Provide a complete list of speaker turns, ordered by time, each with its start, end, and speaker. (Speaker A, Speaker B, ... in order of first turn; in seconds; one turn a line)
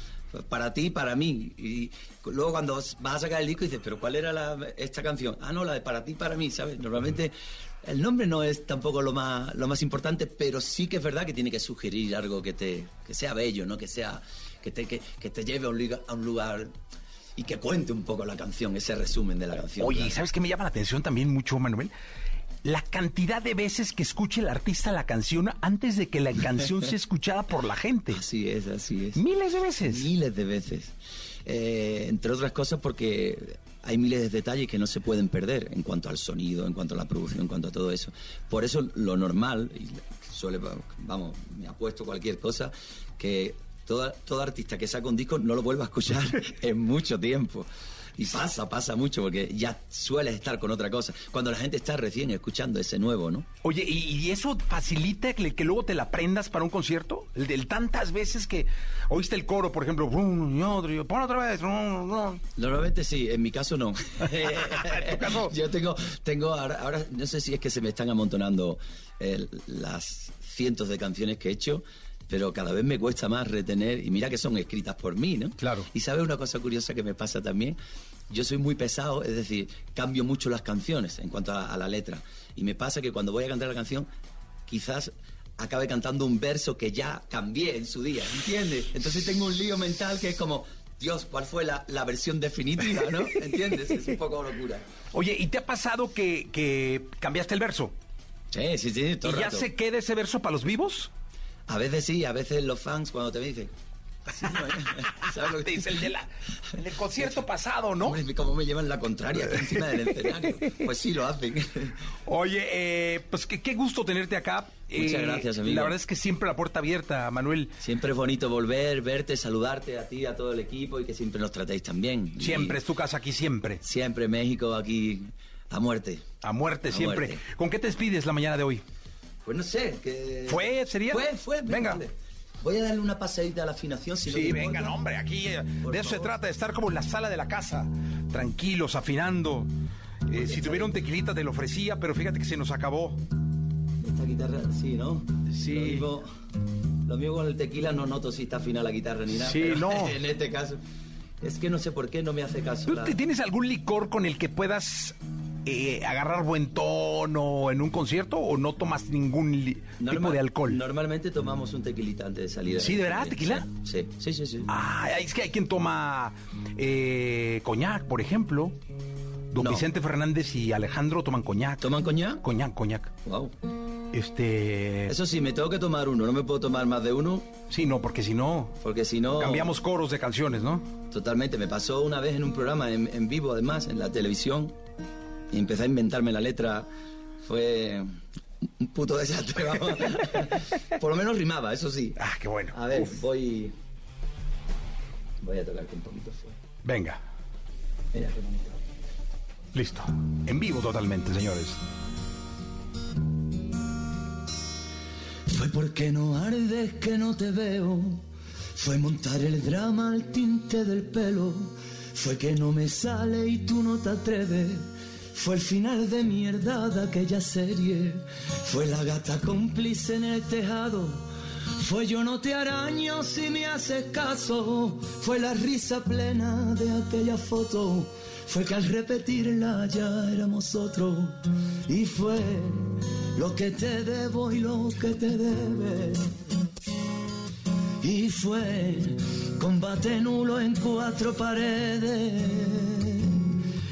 Speaker A: 0.3-16.8
Speaker A: 17.4-20.2
Speaker B: 19.8-21.9
Speaker B: 22.6-28.2
Speaker A: 28.1-29.2
Speaker B: 29.1-30.1
Speaker A: 29.9-30.9
Speaker A: 31.4-53.5
Speaker B: 53.6-62.4
Speaker A: 62.6-77.8
Speaker B: 64.4-65.5
Speaker B: 75.6-75.9
Speaker A: 78.3-84.1
Speaker A: 84.7-94.8
Speaker B: 93.8-94.0
Speaker B: 95.1-97.9
Speaker A: 98.5-99.7
Speaker B: 99.2-101.1
Speaker A: 101.7-103.7
Speaker A: 104.3-106.1
Speaker B: 105.4-108.2
Speaker A: 108.0-112.0
Speaker B: 109.8-110.7
Speaker B: 112.3-117.8
Speaker A: 114.9-116.0
Speaker A: 117.8-122.8
Speaker B: 122.4-123.8
Speaker A: 123.8-126.3
Speaker B: 126.4-128.8
Speaker A: 126.9-127.4
Speaker A: 129.4-135.0
Speaker B: 130.5-132.0
Speaker B: 134.2-139.7
Speaker A: 135.8-136.4
Speaker B: 140.3-143.2
Speaker A: 140.3-140.9
Speaker A: 144.0-146.3
Speaker B: 145.5-146.1
Speaker A: 147.1-150.8
Speaker B: 149.3-150.2
Speaker A: 151.4-153.2
Speaker B: 152.9-160.8
Speaker A: 160.0-164.7
Speaker B: 162.8-163.7
Speaker B: 164.7-168.8
Speaker B: 169.5-171.9
Speaker A: 169.6-169.9
Speaker A: 171.8-172.4
Speaker B: 172.4-173.1
Speaker A: 173.2-173.5
Speaker B: 174.1-175.1
Speaker A: 175.1-177.5
Speaker B: 177.7-178.8
Speaker A: 178.8-179.8
Speaker B: 179.3-180.9
Speaker A: 181.1-184.8
Speaker A: 185.5-186.9
Speaker A: 187.4-188.1
Speaker A: 188.8-192.2
Speaker B: 192.2-193.2
Speaker A: 192.7-193.8
Speaker A: 195.4-196.6
Speaker B: 196.8-197.2
Speaker A: 198.1-198.8
Speaker B: 199.7-201.8
Speaker C: 205.8-208.2
Speaker C: 208.9-211.5
Speaker C: 212.2-214.8
Speaker C: 215.4-218.2
Speaker C: 218.7-221.2
Speaker C: 221.8-231.3
Speaker C: 231.9-232.8
Speaker C: 233.4-236.2
Speaker C: 238.0-243.3